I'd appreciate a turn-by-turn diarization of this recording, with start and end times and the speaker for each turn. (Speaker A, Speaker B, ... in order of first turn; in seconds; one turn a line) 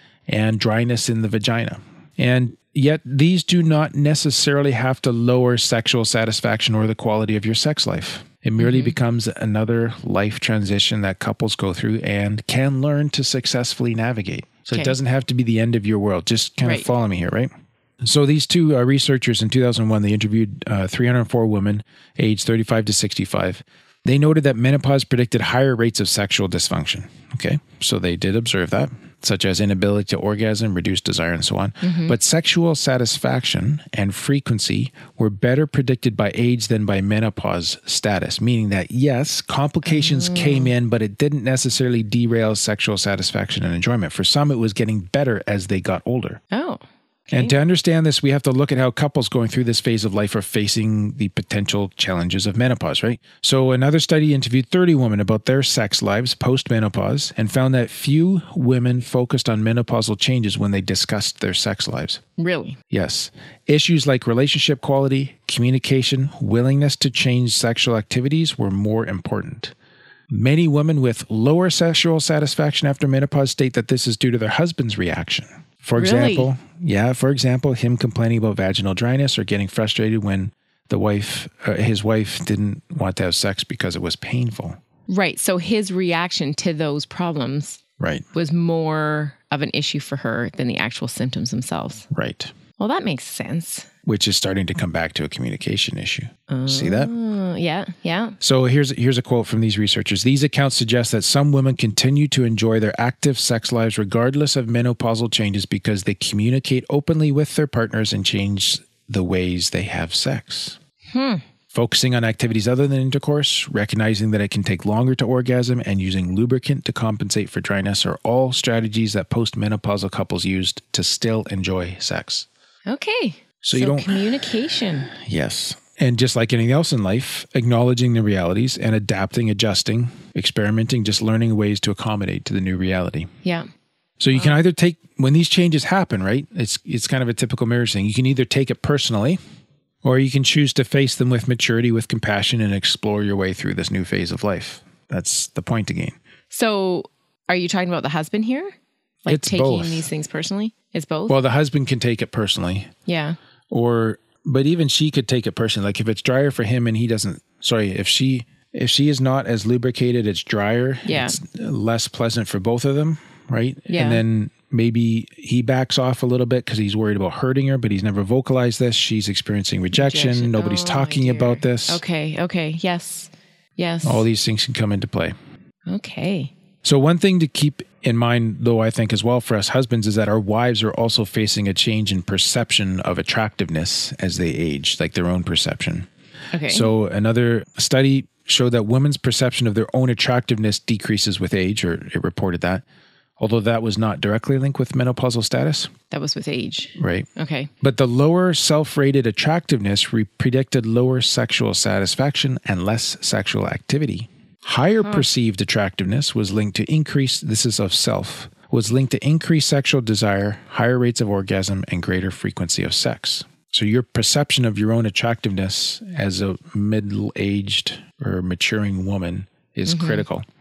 Speaker A: 0.3-46.4
Speaker B: 8.6-9.0
Speaker B: 31.8-32.2
Speaker B: 39.9-40.7
Speaker B: 46.5-47.5
Speaker A: 47.3-62.2
Speaker B: 62.4-62.8
Speaker A: 62.9-69.7
Speaker A: 70.3-84.8
Speaker B: 76.0-76.5
Speaker B: 85.1-87.8
Speaker A: 88.0-88.2
Speaker B: 88.3-92.0
Speaker A: 92.1-92.5
Speaker B: 92.8-93.9
Speaker A: 94.0-97.1
Speaker B: 96.5-98.4
Speaker A: 98.4-110.8
Speaker B: 111.1-111.4
Speaker A: 111.7-122.5
Speaker B: 122.9-125.1
Speaker A: 123.6-124.5
Speaker A: 125.1-133.3
Speaker A: 134.2-139.4
Speaker A: 140.0-146.2
Speaker B: 146.5-148.7
Speaker B: 149.2-151.3
Speaker A: 149.3-150.1
Speaker A: 151.3-152.9
Speaker B: 153.1-153.4
Speaker A: 153.7-172.0
Speaker B: 161.1-161.4
Speaker B: 163.9-164.2
Speaker B: 169.9-174.3
Speaker A: 174.0-175.3
Speaker B: 175.9-176.5
Speaker A: 176.8-186.1
Speaker B: 186.5-186.9
Speaker A: 186.7-192.8
Speaker A: 193.4-195.9
Speaker B: 196.1-197.7
Speaker A: 197.0-197.3
Speaker A: 197.8-220.4
Speaker B: 219.9-220.2